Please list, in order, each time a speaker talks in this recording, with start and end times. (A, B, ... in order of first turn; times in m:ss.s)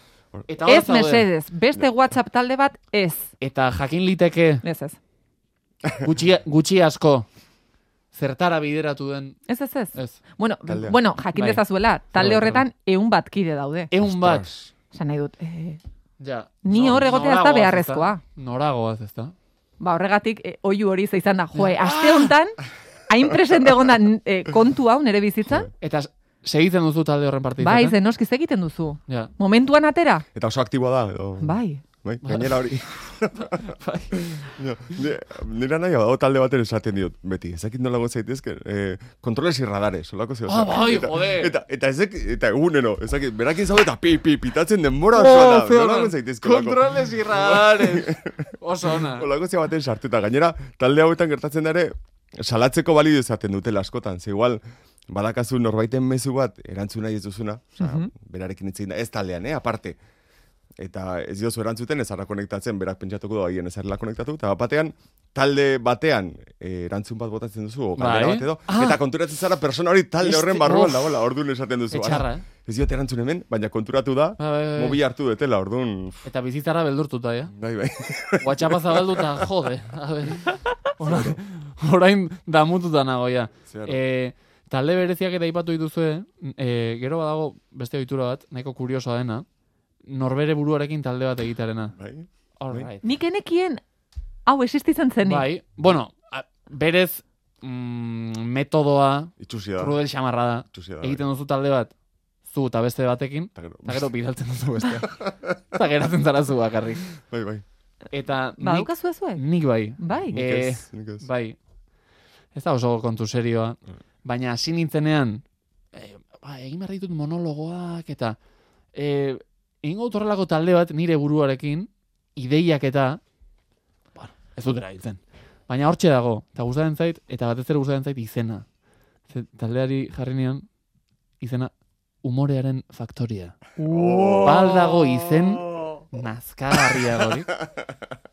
0:00.5-0:01.3 A
0:00.6-0:03.3 B
0:03.4-0:04.6 A
0:04.6-0:05.0 B
0:06.0-0:07.3 A
0:08.1-0:10.2 A
0:09.5-0:13.9 B
0:10.7-0:11.0 C
0:11.4-0:11.6 A
0:12.2-0:12.6 A
0:13.9-0:14.5 A
0:14.0-0:14.7 C
0:14.9-0:15.8 B
0:16.2-0:19.3 A
0:16.6-0:18.2 B
0:19.8-0:25.7 B
0:21.6-0:22.3 A
0:25.8-0:28.0 A
0:27.6-0:30.2 B
0:30.4-1:00.0 C
0:31.4-0:31.8 B
0:32.2-0:32.6 A
0:33.3-0:34.2 A
0:40.5-0:41.5 A
0:45.1-0:49.3 A
0:57.8-0:58.1 B
1:00.8-1:16.2 C
1:08.0-1:09.0 A
1:10.2-1:11.2 A
1:11.9-1:12.4 A
1:14.4-1:15.0 A
1:16.3-1:17.5 A
1:17.5-1:19.2 C
1:18.4-1:29.5 A
1:21.0-1:21.4 C
1:23.7-1:24.0 C
1:30.0-1:31.9 A
1:32.0-1:32.9 C
1:32.6-1:33.0 A
1:33.0-1:33.8 B
1:34.4-1:35.5 B
1:35.2-1:41.9 A
1:39.4-1:40.0 C
1:40.7-1:41.2 C
1:42.5-1:47.1 A
1:43.6-1:44.1 C
1:45.1-1:45.6 C
1:47.2-1:47.6 C
1:48.1-1:51.6 A
1:48.6-1:49.4 B
1:50.0-1:50.4 B
1:50.3-1:51.3 C
1:52.6-1:58.4 A
1:58.9-2:03.2 A
2:04.2-2:08.6 A
2:09.3-2:10.7 A
2:11.4-2:11.7 A
2:12.2-2:13.6 A
2:13.8-2:14.8 B
2:13.9-2:14.8 C
2:14.4-2:17.5 A